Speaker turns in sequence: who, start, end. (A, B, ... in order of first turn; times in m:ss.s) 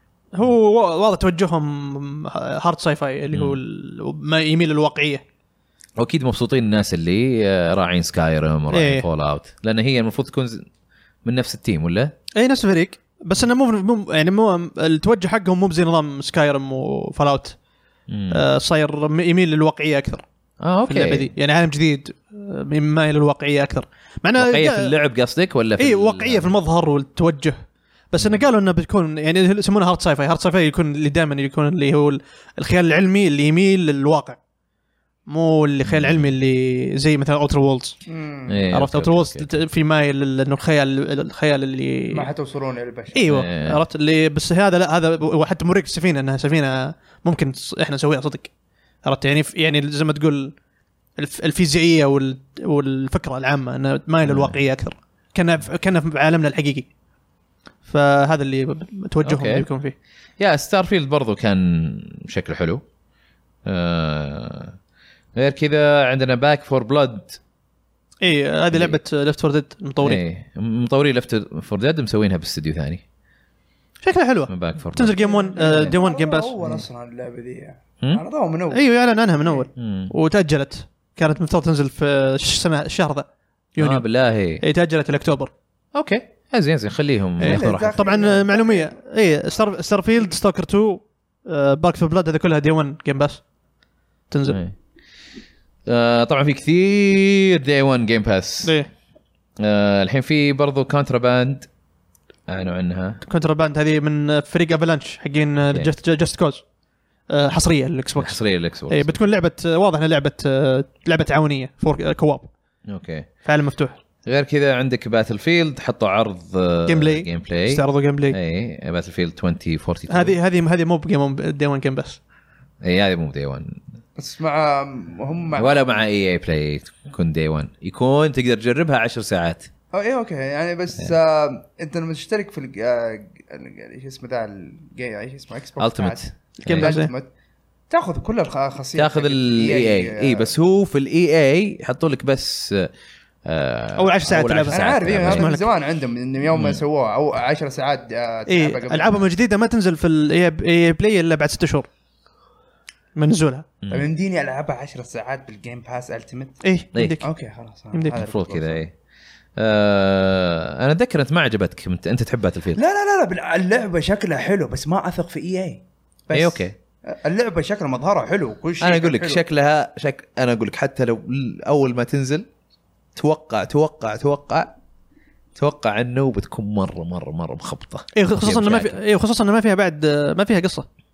0:00.3-0:05.2 A
0:03.3-0:03.6 B
0:06.0-0:10.7 B
0:08.7-0:09.0 A
0:11.2-0:12.1 B
0:12.3-0:17.6 A
0:18.1-0:18.4 B
0:18.3-0:20.2 A
0:20.6-0:21.3 B
0:20.9-0:24.9 A
0:24.4-0:26.5 B
0:25.8-0:27.6 A
0:28.1-0:34.4 A
0:35.3-0:38.0 A
0:35.9-0:36.3 B
0:38.1-0:38.6 C
0:38.5-0:39.5 B
0:38.7-0:42.3 A
0:42.1-0:43.2 C
0:43.1-0:48.5 A
0:43.3-0:43.8 B
0:49.0-0:50.6 A
0:51.2-0:56.9 A
0:54.2-0:54.6 B
0:57.8-0:59.9 A
0:59.2-0:59.6 B
1:00.4-1:02.8 B
1:03.6-1:04.8 B
1:05.4-1:07.4 B
1:08.2-1:10.2 A
1:08.7-1:09.0 B
1:10.0-1:13.0 B
1:14.0-1:16.5 A
1:14.5-1:15.9 B
1:15.2-1:18.8 C
1:18.7-1:24.0 A
1:19.8-1:20.1 B
1:23.8-1:24.6 B
1:24.6-1:25.5 A
1:25.9-1:28.0 B
1:27.4-1:33.4 A
1:27.4-1:28.9 C
1:34.3-1:34.6 A
1:34.5-1:34.8 B
1:35.9-1:38.8 B
1:38.6-1:38.9 A
1:39.6-1:41.7 B
1:42.5-1:43.2 B
1:43.2-1:46.6 A
1:47.3-1:52.5 A
1:48.2-1:49.2 B
1:52.9-1:53.3 B
1:53.4-1:54.0 A
1:54.2-2:00.4 B
1:56.9-1:58.4 A
2:00.1-2:02.2 A
2:02.8-2:03.8 B
2:04.2-2:05.9 C
2:05.6-2:09.7 B
2:09.9-2:17.3 C
2:15.8-2:17.0 B
2:16.6-2:17.1 A
2:17.9-2:20.5 C
2:19.0-2:22.9 B
2:23.4-2:25.5 B
2:24.0-2:25.7 A
2:24.7-2:29.2 C
2:26.5-2:26.8 B
2:28.5-2:31.9 A
2:33.2-2:33.6 A
2:33.9-2:36.6 C
2:36.6-2:37.3 A
2:37.2-2:38.8 C
2:38.1-2:38.9 B
2:39.6-2:42.8 B
2:42.7-2:49.4 C
2:46.3-2:46.7 B
2:48.8-2:52.4 B
2:53.2-2:54.7 B
2:55.6-2:59.0 B
2:58.1-3:00.9 A